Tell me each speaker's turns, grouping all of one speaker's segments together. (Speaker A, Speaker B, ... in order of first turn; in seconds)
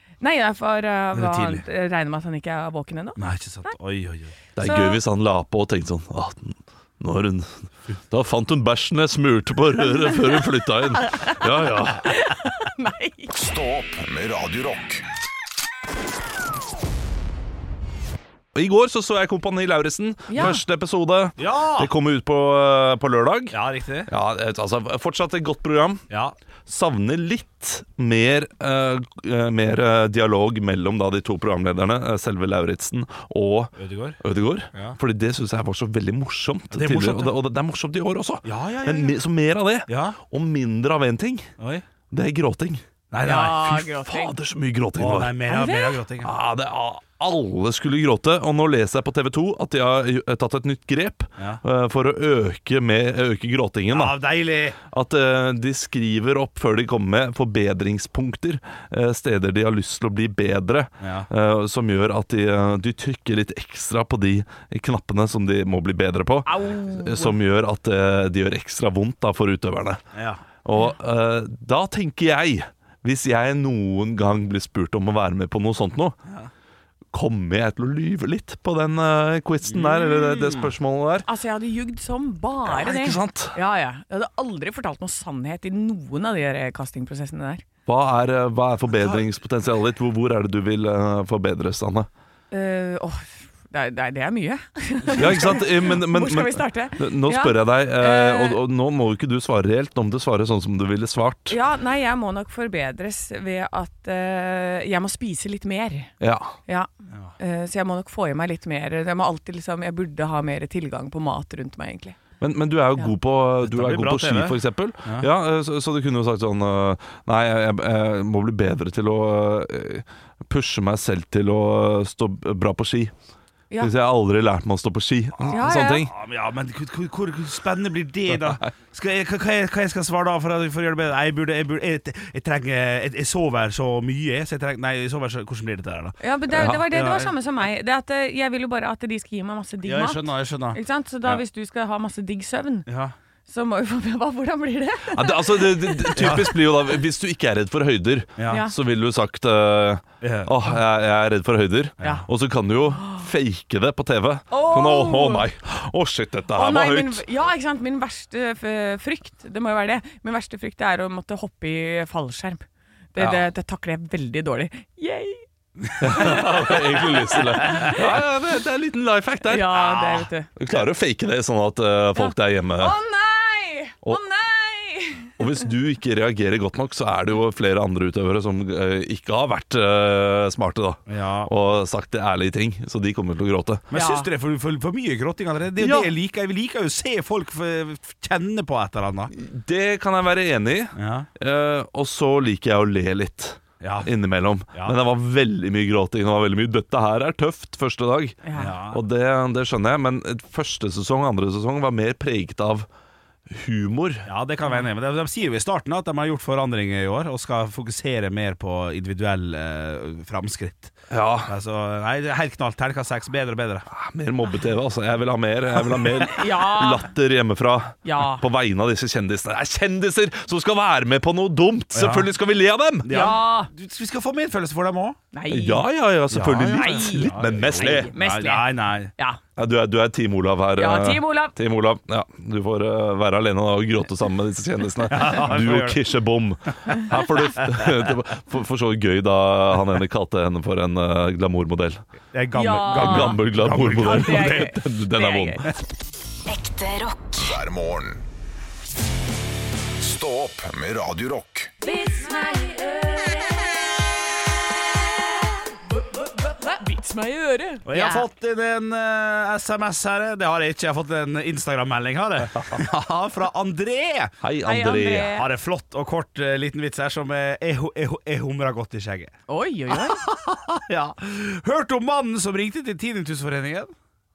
Speaker A: 0.2-3.7, 4.6-5.0, 9.9-10.4, 10.9-13.3, 20.3-20.6, 43.2-44.3, 45.5-46.0, 66.5-67.3, 81.2-87.6, 92.5-98.6, 101.5-106.1, 107.4-112.2, 125.5-126.0, 136.2-142.9, 143.5-146.4, 148.5-148.8, 154.5-155.4, 156.5-168.1, 169.4-170.5, 172.2-175.4, 183.9-184.3, 198.4-198.7, 216.2-217.1, 218.0-218.4, 223.1-223.7, 225.3-225.8, 226.6-229.4, 230.8-231.5, 242.5-243.4, 244.0-245.7, 251.8-253.6, 256.4-258.3, 264.6-265.5, 269.5-270.2
Speaker B: 1.1-1.6, 3.2-4.3, 21.4-21.9, 23.5-24.1, 26.1-26.4, 33.8-34.2, 36.7-37.4, 38.4-39.1, 39.9-40.2, 41.6-41.8, 43.1-43.8, 45.0-46.3, 53.9-54.8, 61.0-61.3, 70.1-70.4, 79.7-80.7, 107.1-107.3, 113.6-115.3, 125.4-136.2, 136.9-137.3, 139.8-141.4, 142.9-143.1, 146.2-146.5, 148.4-148.6, 150.2-150.5, 152.0-152.2, 181.1-181.5, 183.9-189.3, 190.9-191.3, 193.8-194.1, 198.5-199.0, 204.2-210.9, 211.4-213.9, 221.9-222.3, 223.0-225.2, 226.3-229.1, 235.1-236.0, 242.3-244.7, 257.8-264.3, 265.3-269.3, 269.9-273.9
Speaker C: 4.5-12.1, 18.5-26.0, 26.6-41.5, 42.1-42.8, 43.4-45.4, 46.2-54.2, 54.9-70.0, 70.6-76.2, 77.1-81.3, 82.6-83.5, 87.8-92.1, 95.1-101.6, 106.2-106.5, 112.4-123.1, 123.8-126.1, 136.5-136.9, 145.1-157.2, 163.2-163.5, 166.0-173.0, 175.4-183.9, 185.8-186.1, 189.3-202.9, 203.5-204.2, 211.1-211.5, 213.9-223.2, 225.5-228.1, 229.6-242.1, 242.9-245.7, 264.4-265.4
Speaker D: 13.3-15.0, 247.3-248.2, 250.0-251.7
Speaker E: 246.5-247.3, 251.9-253.3